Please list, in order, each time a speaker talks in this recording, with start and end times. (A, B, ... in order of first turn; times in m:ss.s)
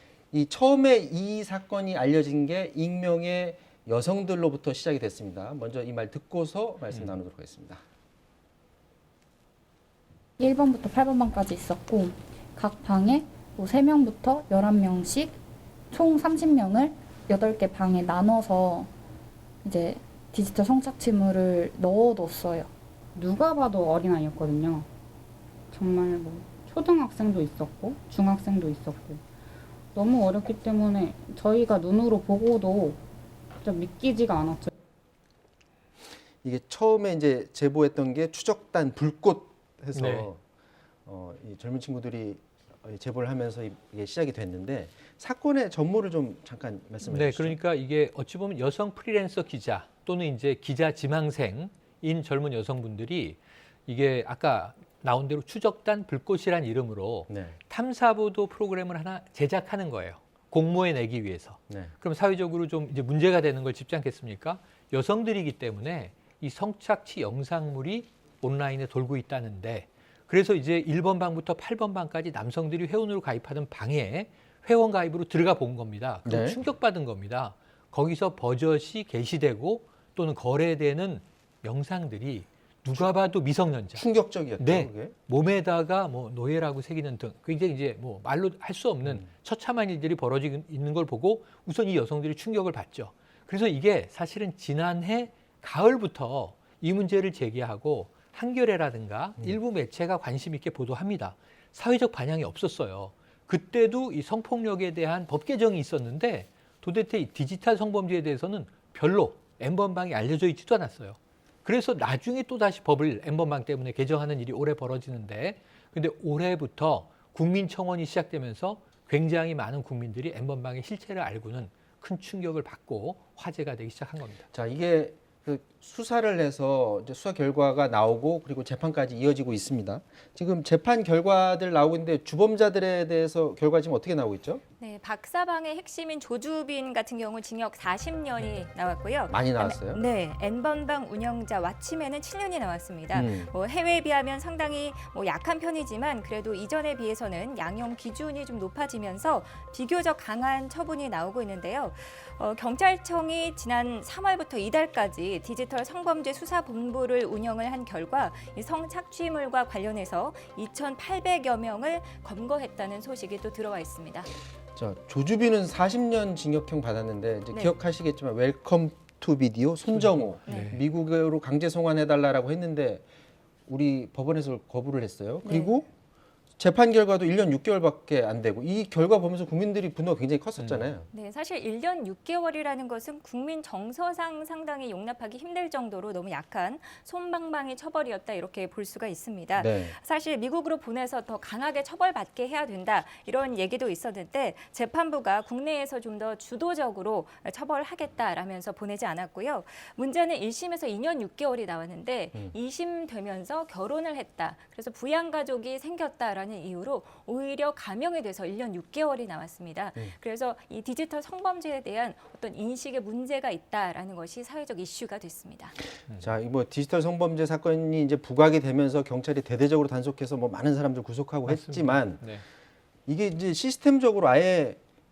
0:00.3-0:07.8 A
0:10.4-0:15.4 B
0:15.9-0:18.9 B
0:19.6-0:22.7 B
0:23.1-0:24.9 C
0:25.7-0:29.2 C
0:29.9-0:33.0 C
0:33.6-0:34.7 C
0:36.4-0:40.4 A
0:39.9-0:40.3 D
0:41.0-0:47.6 A
0:47.0-1:24.0 D
0:57.3-0:57.6 A
1:16.2-1:16.6 A
1:24.0-1:25.1 A
1:24.6-2:04.4 D
2:04.5-2:14.6 A
2:14.8-2:44.3 E
2:19.3-2:20.0 A
2:23.1-2:23.5 A
2:44.7-2:53.0 A
2:50.0-2:50.8 D
2:50.5-2:50.8 E
2:53.7-2:55.9 A
2:55.4-2:55.7 E
2:56.6-3:01.1 A
3:00.6-3:00.9 D
3:01.1-3:35.8 E
3:09.5-3:09.9 A
3:36.2-3:42.2 A
3:41.5-3:42.4 D
3:43.1-3:44.8 A